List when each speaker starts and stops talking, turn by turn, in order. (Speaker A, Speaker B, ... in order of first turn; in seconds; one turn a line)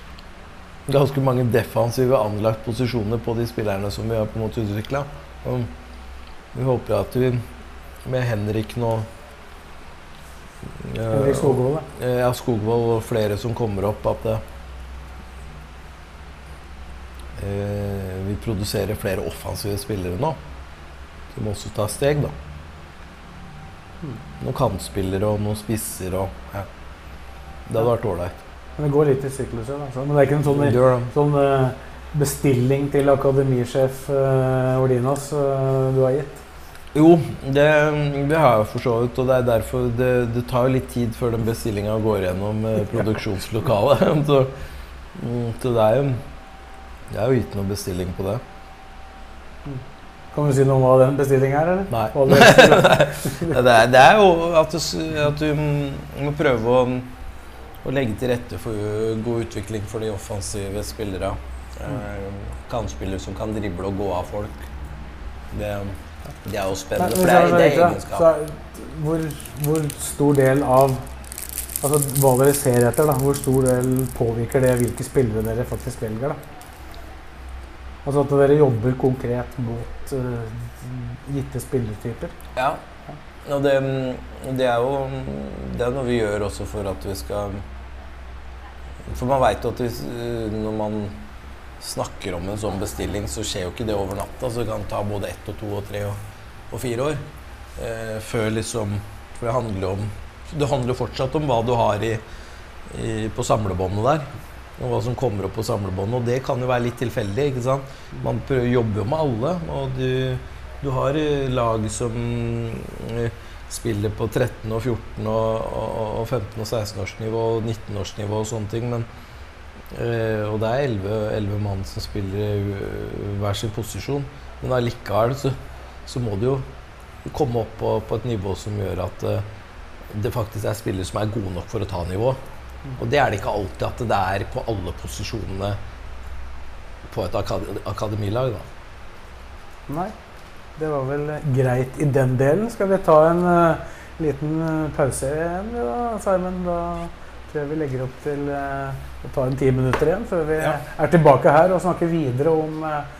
Speaker A: 0.9-5.7
Speaker A: 6.5-7.5
Speaker A: 8.0-9.1
Speaker A: 10.6-14.4
Speaker B: 11.1-11.8
Speaker A: 17.4-20.4
Speaker A: 21.3-22.3
Speaker A: 24.4-26.7
Speaker A: 27.6-28.4
Speaker B: 28.8-36.4
Speaker A: 30.4-31.1
Speaker A: 36.9-44.5
Speaker A: 45.1-46.2
Speaker A: 47.1-48.4
Speaker B: 50.3-53.6
Speaker A: 51.9-57.1
Speaker A: 57.8-64.7
Speaker A: 65.5-68.3
Speaker B: 67.0-71.0
Speaker B: 71.8-76.4
Speaker B: 78.0-82.3
Speaker A: 82.5-82.8
Speaker A: 83.4-87.7
Speaker A: 89.0-91.2
Speaker A: 91.8-96.2
Speaker A: 96.7-97.2
Speaker A: 97.8-102.2
Speaker A: 102.9-119.1
Speaker A: 119.9-126.7
Speaker A: 127.2-129.4
Speaker A: 130.1-132.4
Speaker A: 133.0-135.8
Speaker A: 137.1-138.7
Speaker B: 139.9-140.1
Speaker B: 140.8-153.1